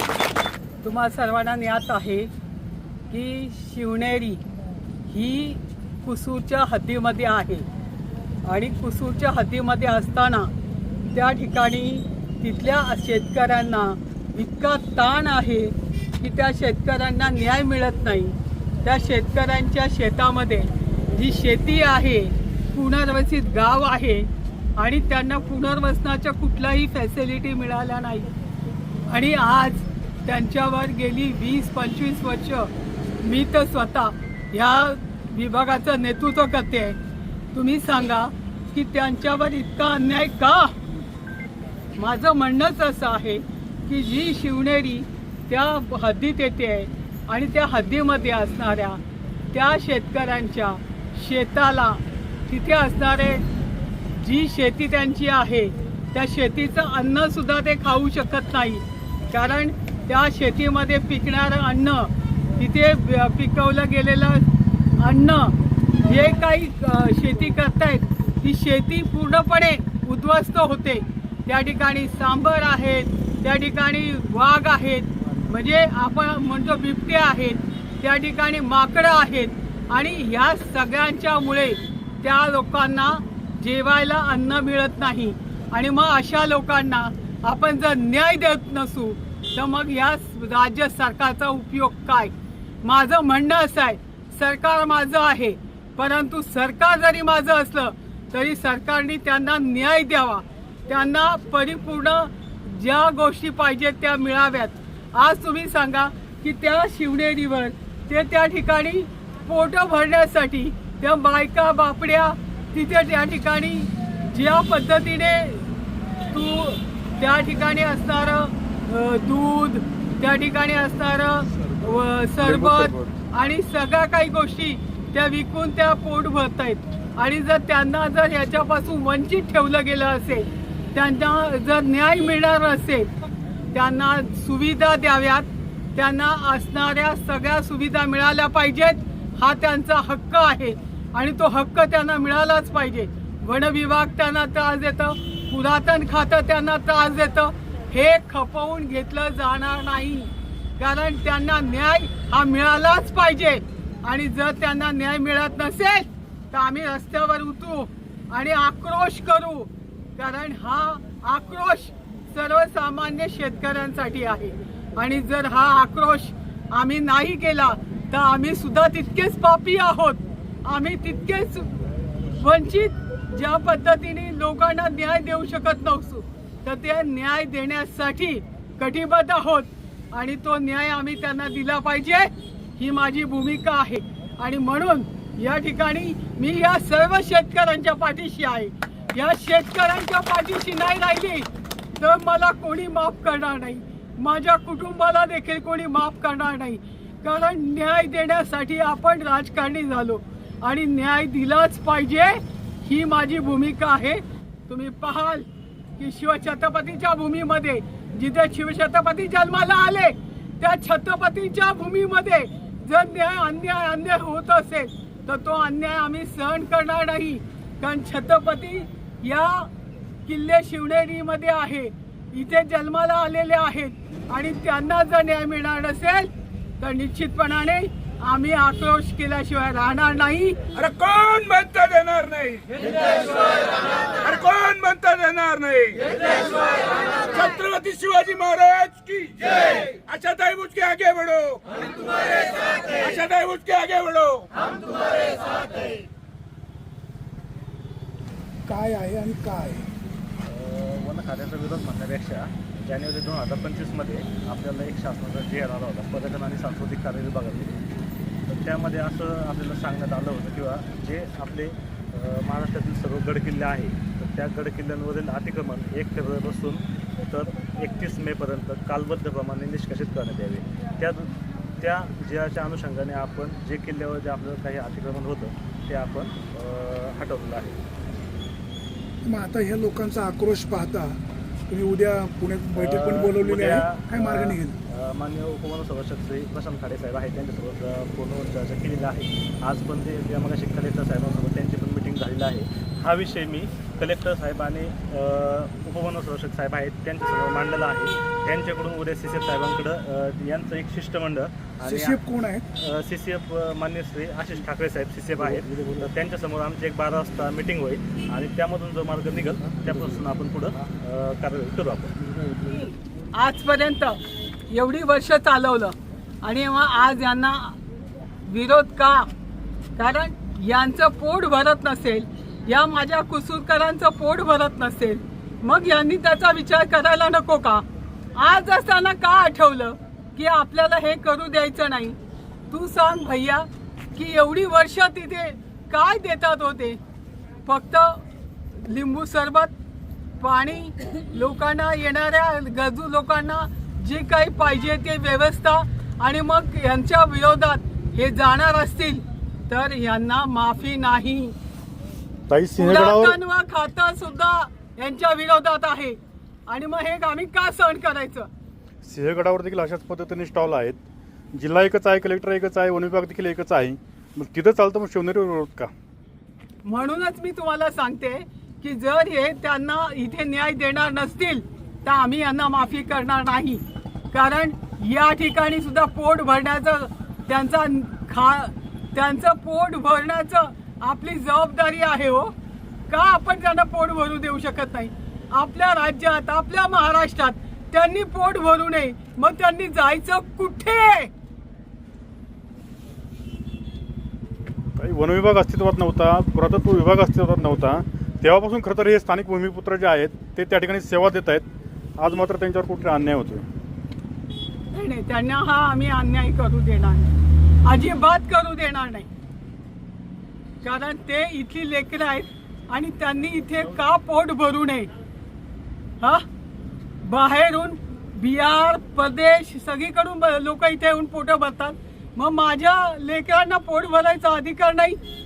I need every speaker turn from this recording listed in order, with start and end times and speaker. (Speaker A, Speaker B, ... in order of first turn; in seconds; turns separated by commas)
Speaker A: 0.8-2.3, Speaker A: 3.1-4.4, Speaker A: 5.1-7.7, Speaker A: 8.4-10.5, Speaker A: 11.1-28.3, Speaker A: 29.1-32.7, Speaker A: 33.2-37.0, Speaker A: 37.5-40.7, Speaker A: 42.0-49.0, Speaker A: 49.5-53.4, Speaker A: 54.1-64.4, Speaker A: 65.0-115.7, Speaker A: 116.2-133.1, Speaker B: 121.6-123.2, Speaker A: 133.7-171.8, Speaker A: 172.3-191.5, Speaker A: 192.0-219.7, Speaker A: 220.2-230.6, Speaker C: 230.7-244.7, Speaker D: 248.7-249.9, Speaker E: 250.4-257.8, Speaker E: 258.5-277.8, Speaker D: 279.2-284.7, Speaker E: 282.8-302.2, Speaker D: 301.8-302.6, Speaker E: 302.7-312.2, Speaker A: 313.3-314.2, Speaker A: 314.7-317.8, Speaker A: 318.4-319.3, Speaker A: 319.9-327.8, Speaker A: 328.3-332.2, Speaker A: 332.7-337.0, Speaker A: 337.6-338.2, Speaker A: 338.8-339.7, Speaker A: 340.4-351.5, Speaker B: 352.5-353.4, Speaker A: 352.8-358.5, Speaker B: 359.0-361.0, Speaker B: 361.5-365.9, Speaker A: 366.8-382.5, Speaker A: 383.1-391.3, Speaker B: 394.9-401.6, Speaker B: 402.2-403.6, Speaker A: 404.9-407.3, Speaker A: 407.8-409.3, Speaker A: 410.8-415.1, Speaker A: 417.2-425.2